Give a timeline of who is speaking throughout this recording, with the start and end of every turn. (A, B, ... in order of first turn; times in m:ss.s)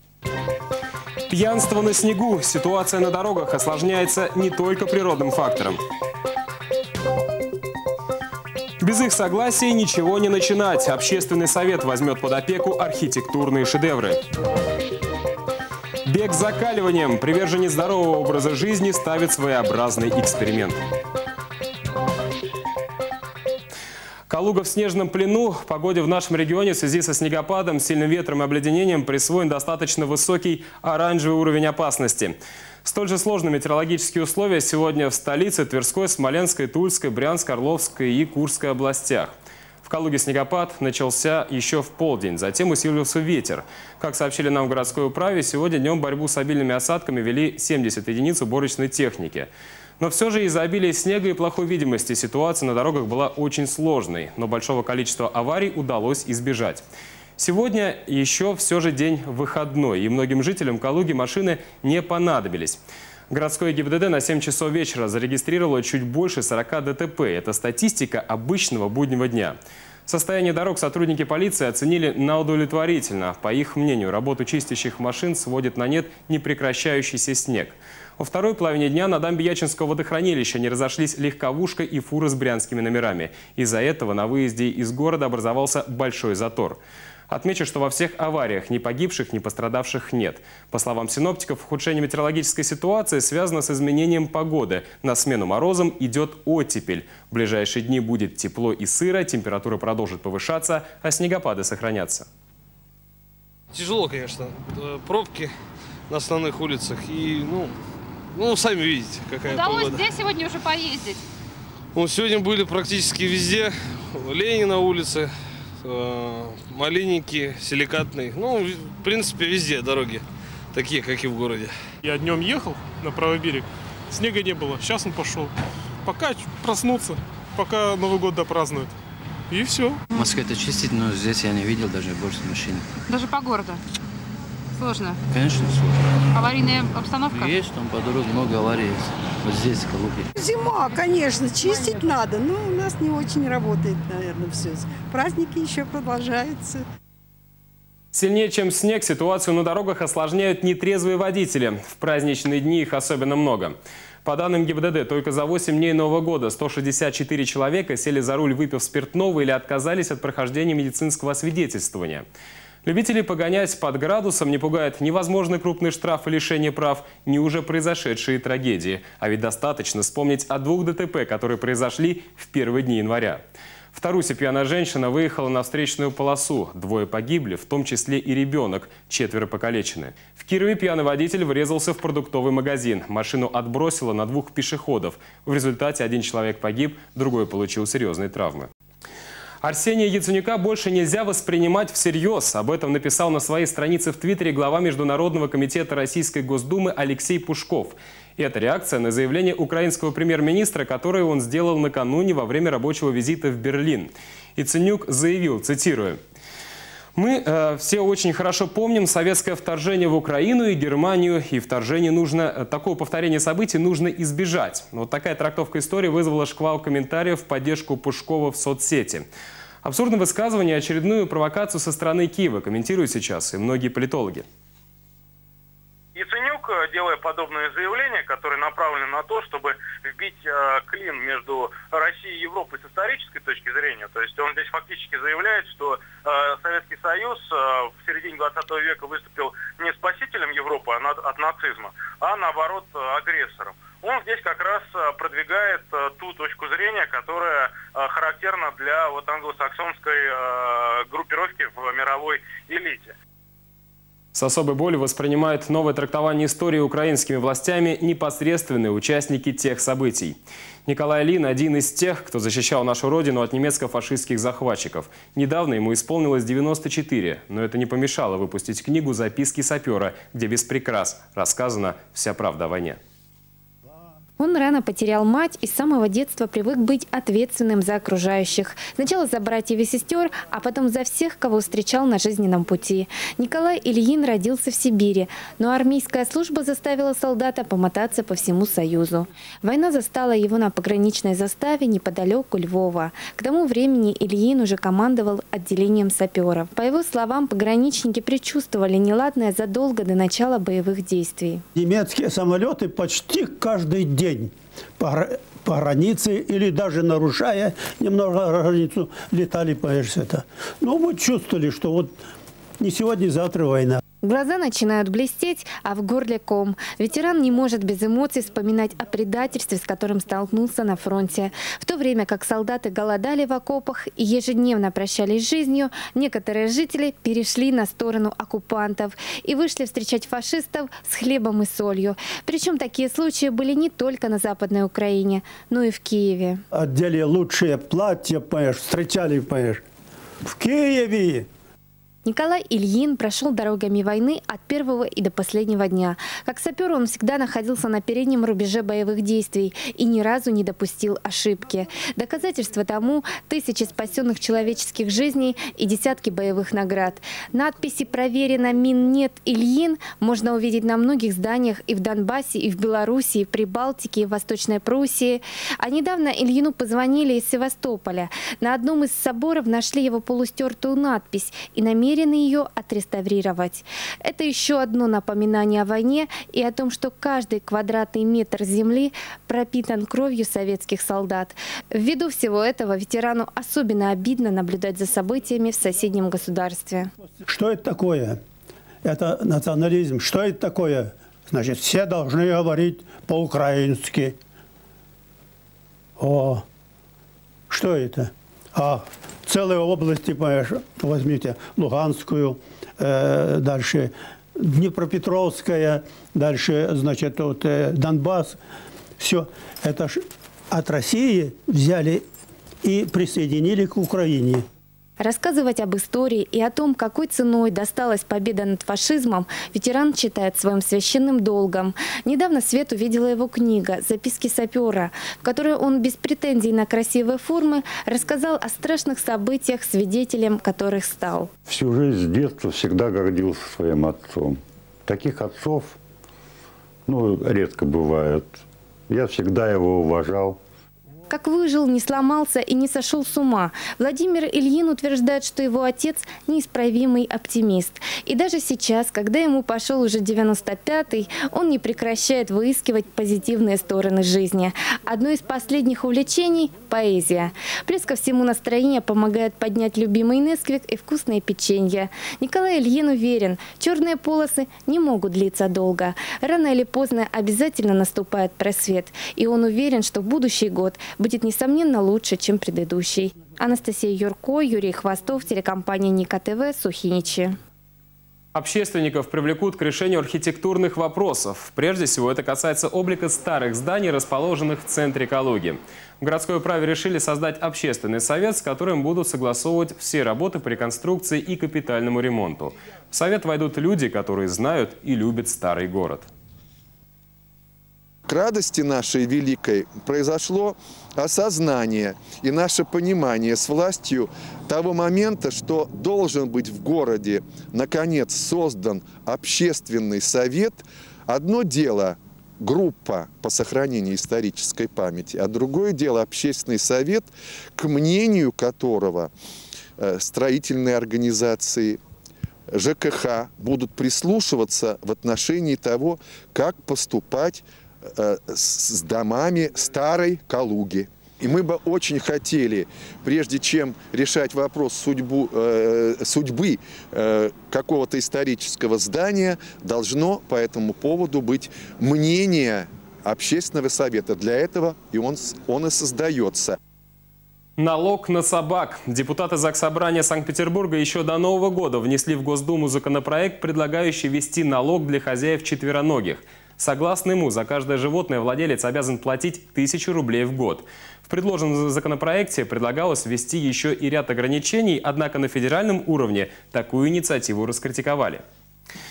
0:01.3-0:05.8 A
0:08.8-0:14.2 A
0:16.0-0:20.8 A
0:24.3-0:39.3 A
0:39.8-0:56.8 A
0:57.4-1:42.3 A
1:43.7-1:45.5 B
1:46.1-1:47.8 B
1:48.3-1:50.1 B
1:49.5-1:51.2 C
1:51.9-2:01.7 B
2:02.0-2:05.5 D
2:06.0-2:08.9 D
2:09.5-2:10.0 D
2:10.1-2:12.9 E
2:13.1-2:13.8 C
2:14.8-2:15.2 C
2:15.3-2:16.0 E
2:16.4-2:17.6 C
2:17.3-2:20.3 E
2:20.4-2:26.8 F
2:28.1-2:42.3 A
2:42.8-2:53.4 A
2:53.9-3:08.7 A
3:09.6-3:26.2 A
3:27.2-3:39.3 A
3:39.8-3:44.5 A
3:46.2-4:13.1 G
4:14.3-4:33.0 A
4:34.4-5:01.6 H
5:01.8-5:12.2 I
5:12.8-5:14.0 I
5:14.2-5:36.6 H
5:36.7-5:39.8 I
5:40.4-5:41.5 I
5:42.2-6:27.1 H
6:27.5-6:28.4 I
6:29.0-6:34.4 I
6:36.2-6:36.6 I
6:37.7-6:48.6 I
6:49.2-6:52.2 I
6:52.8-6:54.6 I
6:55.2-7:11.5 H
7:11.7-7:16.0 J
7:17.1-7:20.6 J
7:21.3-7:57.6 H
7:58.5-8:16.3 A
8:18.3-8:39.3 K
8:40.0-8:42.0 K
8:42.7-9:06.8 K
9:07.8-9:28.4 A